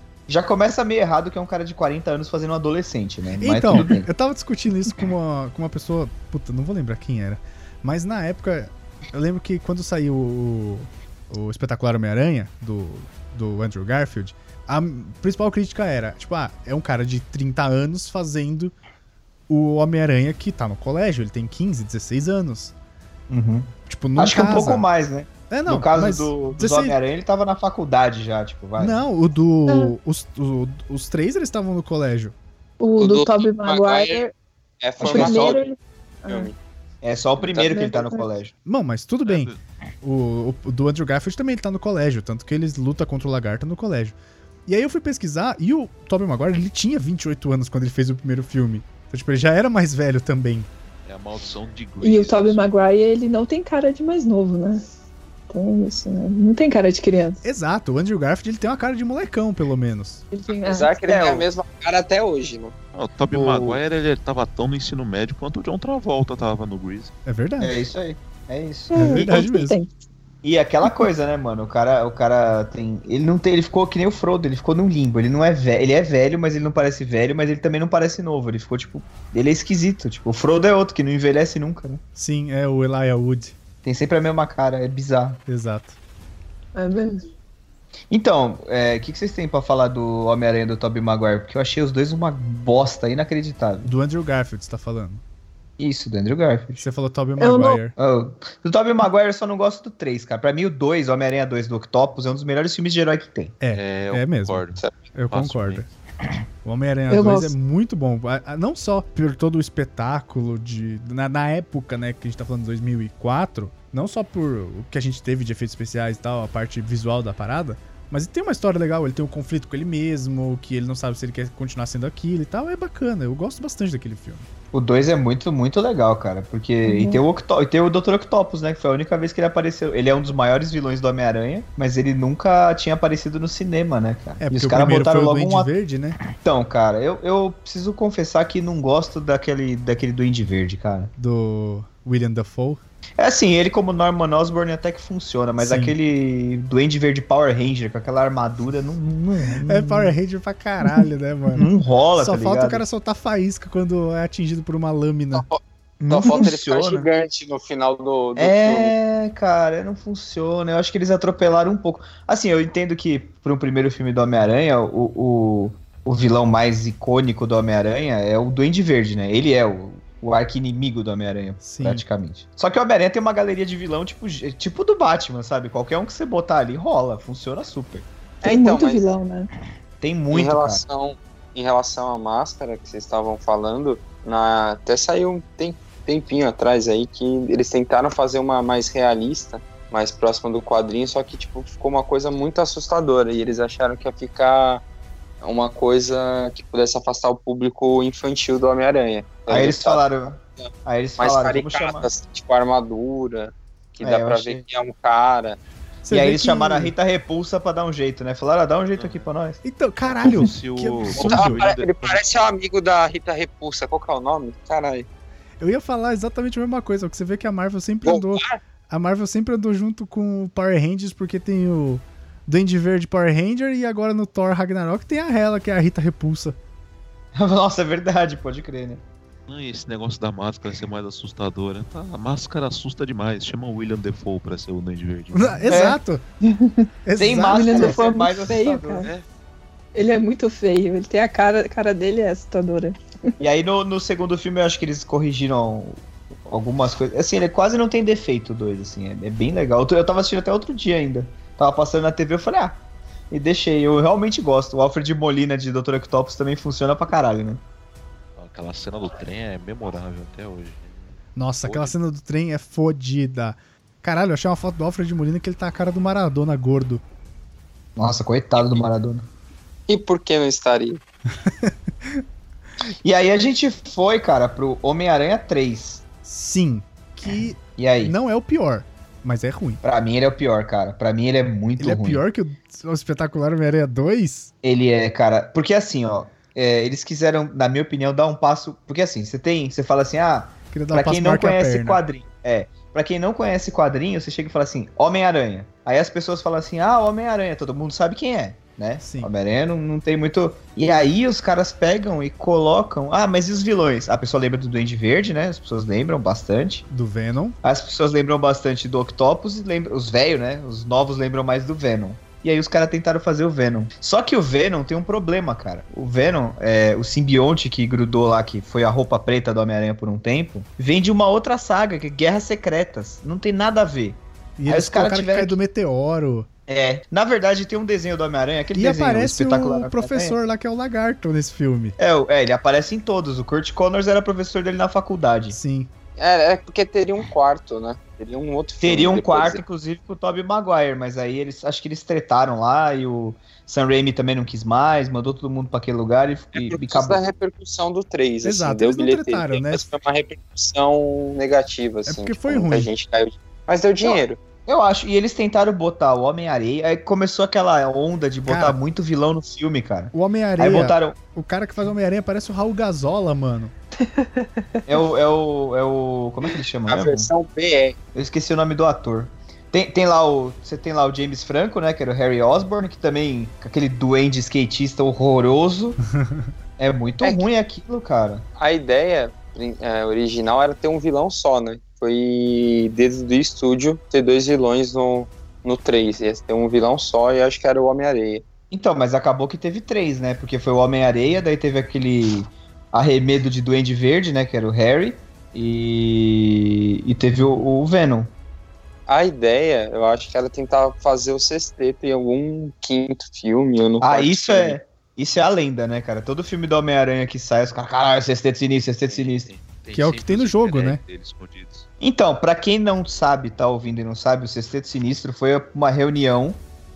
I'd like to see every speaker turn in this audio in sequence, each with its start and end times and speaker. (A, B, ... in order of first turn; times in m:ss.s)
0:00.3-0:04.1 A
0:03.4-0:18.7 B
0:19.5-0:22.7 B
0:23.3-0:29.0 A
0:23.9-0:24.8 B
0:25.5-0:27.0 B
0:28.8-0:32.3 B
0:29.7-0:29.9 C
0:32.8-0:34.3 C
0:33.0-0:34.2 D
0:34.8-0:35.6 D
0:35.0-0:35.6 A
0:35.0-0:36.5 C
0:36.3-0:36.5 D
0:37.0-0:38.5 A
0:37.5-0:38.2 C
0:38.6-0:44.1 B
0:39.2-0:39.6 E
0:44.6-0:50.7 B
0:51.0-0:52.6 E
0:52.0-0:54.8 C
0:55.5-0:57.4 C
0:57.4-1:00.2 B
1:00.3-1:00.9 C
1:00.6-1:02.7 D
1:01.1-1:01.5 A
1:02.9-1:07.1 E
1:03.3-1:03.8 A
1:07.2-1:07.8 B
1:07.6-1:09.4 A
1:08.9-1:09.9 C
1:08.9-1:09.8 B
1:10.4-1:22.0 A
1:22.1-1:23.5 B
1:23.8-1:25.4 A
1:25.5-1:26.0 B
1:26.7-1:27.2 C
1:28.1-1:33.9 A
1:33.8-1:35.2 B
1:35.8-1:36.8 A
1:36.8-1:37.9 B
1:37.4-1:37.8 C
1:38.0-1:43.5 A
1:43.6-1:45.8 B
1:43.7-1:45.9 E
1:46.6-2:04.5 B
1:47.1-1:47.5 C
2:04.7-2:15.7 A
2:06.8-2:07.2 C
2:14.4-2:16.2 B
2:16.4-2:21.1 A
2:21.2-2:22.8 B
2:23.2-2:30.1 A
2:25.6-2:25.9 B
2:29.6-2:35.4 B
2:31.5-2:32.8 A
2:35.3-2:38.9 D
2:36.0-2:37.1 A
2:38.4-2:58.0 A
2:51.6-2:52.0 B
2:58.4-2:59.1 D
2:58.4-2:59.5 C
3:00.0-3:00.8 A
3:00.3-3:14.8 D
3:15.4-3:20.0 D
3:19.5-3:22.1 A
3:21.2-3:25.6 D
3:24.0-3:24.6 A
3:26.0-3:26.9 B
3:26.1-3:29.6 A
3:29.0-3:29.2 E
3:29.6-3:31.6 B
3:30.0-3:32.2 E
3:31.1-3:35.1 D
3:35.6-3:46.6 B
3:38.0-3:38.6 D
3:47.3-3:49.0 A
3:49.5-3:55.8 E
3:55.3-3:56.2 B
3:55.7-3:56.0 A
3:56.4-3:59.1 C
3:57.0-3:58.0 B
3:57.2-3:59.1 A
3:59.9-4:03.0 C
4:03.4-4:17.6 A
4:18.4-4:22.0 E
4:21.4-4:27.0 B
4:28.0-4:29.2 A
4:29.9-4:31.0 D
4:31.4-4:32.2 B
4:33.0-4:36.0 A
4:36.2-4:39.8 B
4:37.8-4:38.1 A
4:39.8-4:42.2 A
4:41.8-4:44.5 B
4:44.6-5:06.8 A
4:50.7-4:52.0 B
4:59.0-4:59.3 B
5:06.9-5:07.6 B
5:07.6-5:25.6 A
5:24.6-5:26.5 B
5:26.7-5:30.4 A
5:28.7-5:32.0 B
5:32.0-5:35.6 A
5:35.5-5:35.9 B
5:36.2-5:39.6 D
5:38.8-5:47.2 A
5:46.5-5:54.4 D
5:48.4-5:49.9 B
5:52.0-5:52.9 B
5:54.0-6:01.2 A
5:58.5-5:58.8 B
6:00.1-6:03.7 B
6:04.0-6:04.6 C
6:04.9-6:07.3 A
6:06.9-6:08.0 D
6:08.1-6:16.0 A
6:16.1-6:16.5 B
6:16.8-6:18.4 A
6:18.6-6:28.4 D
6:28.7-6:38.3 A
6:39.1-6:44.8 D
6:44.0-6:49.5 A
6:49.0-6:51.8 E
6:49.9-6:51.0 B
6:52.0-6:56.6 A